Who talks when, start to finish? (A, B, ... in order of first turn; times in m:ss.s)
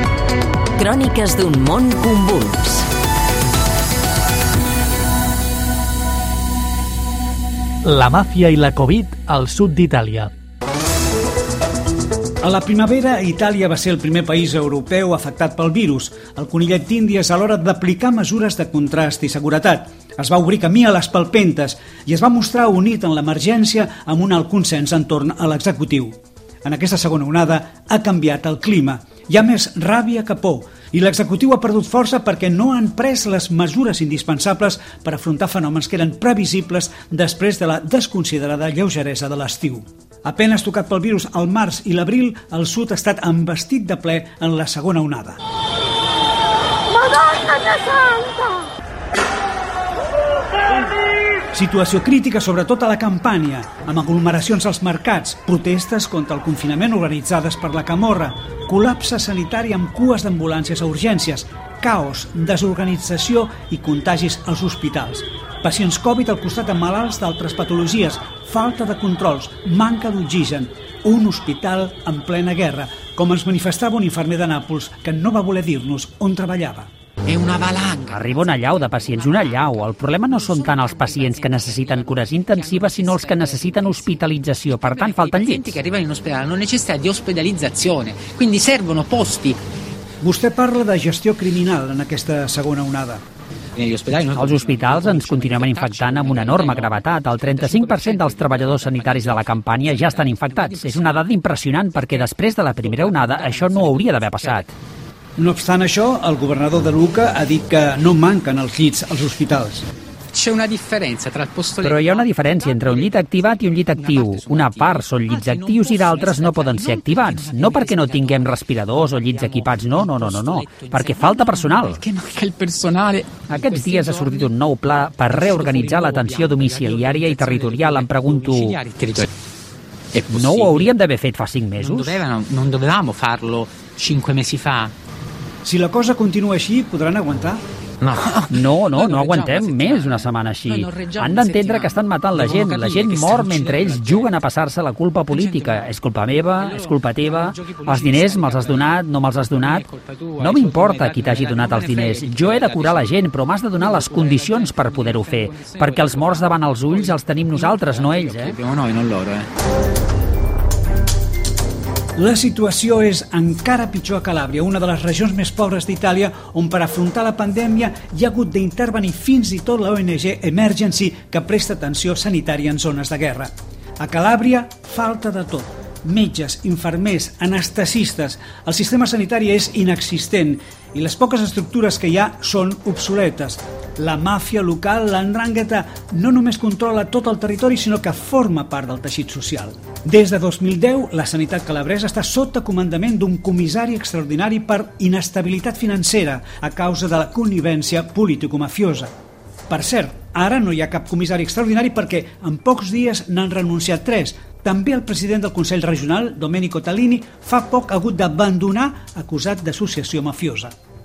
0:00.8-0:02.8 A
0:07.8-0:10.3 B
0:12.4-0:45.4 C
0:51.5-1:16.9 C
1:17.3-1:29.6 D
1:18.1-1:25.8 E
1:30.2-1:33.2 C
1:33.8-1:41.4 D
1:34.3-1:44.7 E
1:42.0-1:44.7 D
1:45.4-1:49.8 C
1:50.3-1:53.2 D
1:51.8-2:02.0 E
1:53.8-2:09.3 D
2:03.5-2:08.8 E
2:10.1-2:10.9 D
2:10.3-2:12.2 E
2:11.8-2:14.9 D
2:15.6-2:17.6 C
2:18.0-2:24.4 D
2:18.5-2:29.8 E
2:25.3-2:25.9 D
2:26.4-2:33.2 D
2:30.4-2:38.6 E
2:33.7-2:39.5 D
2:42.2-3:19.1 C
3:19.7-3:30.7 C